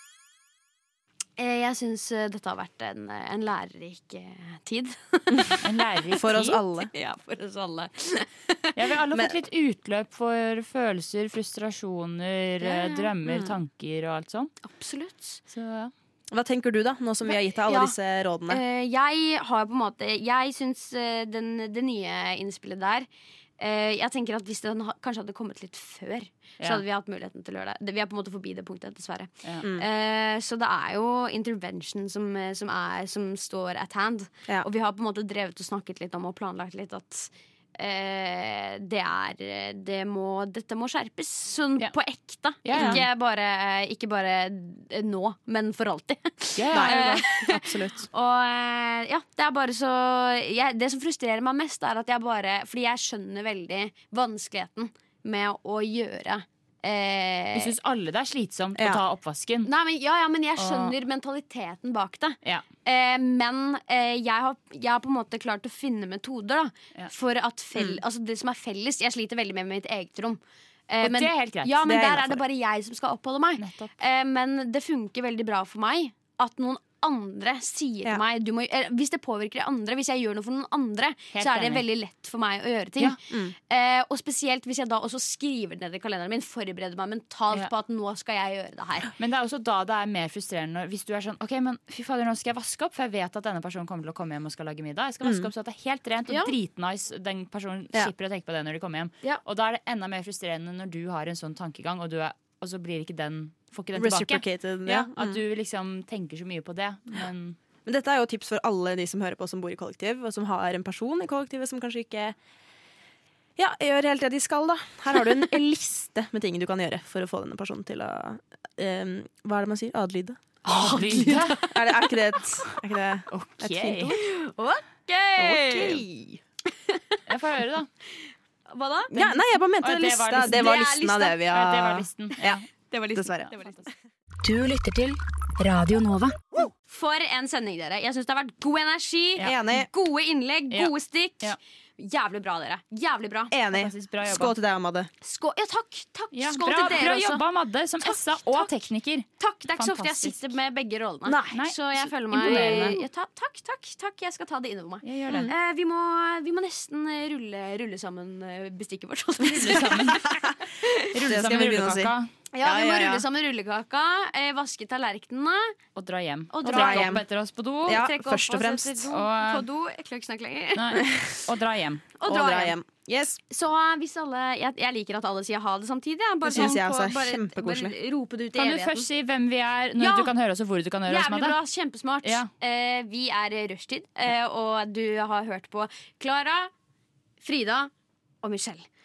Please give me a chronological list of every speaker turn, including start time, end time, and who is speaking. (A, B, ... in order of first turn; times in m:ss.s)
0:01.4-0:05.6 A
0:05.6-0:06.6 B
0:06.1-0:06.9 C
0:06.9-0:08.8 A
0:08.7-0:14.5 B
0:12.6-0:13.1 A
0:13.2-0:13.5 C
0:14.6-0:15.4 A
0:15.5-0:15.9 B
0:16.3-0:18.6 C
0:17.3-0:17.9 A
0:18.5-0:23.1 A
0:23.6-0:57.7 A
0:42.6-0:43.0 B
0:42.7-0:43.0 C
0:46.6-0:47.2 B
0:46.7-0:48.0 C
0:57.5-0:59.7 B
0:59.6-1:29.1 A
1:00.6-1:00.9 B
1:11.0-1:12.0 B
1:11.8-1:12.4 C
1:13.6-1:13.9 B
1:21.3-1:21.8 B
1:29.2-1:47.6 B
1:35.2-1:35.5 C
1:36.3-1:36.5 A
1:44.0-1:45.4 C
1:47.8-1:52.4 C
1:53.6-2:00.4 C
2:00.6-2:02.4 A
2:00.7-2:01.6 B
2:01.7-2:04.2 C
2:03.3-2:04.2 B
2:04.1-2:06.0 A
2:05.4-2:06.4 C
2:06.9-2:07.2 A
2:07.3-2:07.9 B
2:08.7-2:09.3 A
2:09.1-2:13.5 C
2:09.8-2:12.5 B
2:10.5-2:11.4 A
2:12.9-2:13.8 A
2:14.4-2:16.4 D
2:16.9-2:23.5 A
2:19.4-2:19.9 C
2:23.5-2:25.1 C
2:23.7-2:24.5 B
2:25.2-2:27.4 A
2:26.3-2:30.4 B
2:28.0-2:28.7 A
2:29.4-2:41.1 A
2:31.2-2:31.6 C
2:31.5-2:33.0 B
2:32.4-2:33.0 C
2:35.0-2:35.5 B
2:35.3-2:35.5 C
2:39.4-2:40.2 B
2:39.7-2:40.6 C
2:41.1-2:42.3 B
2:41.2-2:43.2 C
2:42.5-2:45.7 A
2:46.0-2:48.0 B
2:46.5-2:47.2 A
2:46.6-2:47.2 C
2:47.8-2:49.1 C
2:47.9-2:51.1 A
2:49.1-2:49.6 B
2:50.7-2:52.0 B
2:51.0-2:51.4 C
2:52.2-2:52.8 A
2:52.2-2:53.4 C
2:53.5-2:59.1 A
2:56.5-2:57.9 C
2:58.5-3:01.6 B
3:00.0-3:00.3 A
3:01.0-3:06.7 A
3:02.2-3:02.5 B
3:07.4-3:07.9 A
3:08.4-3:08.9 A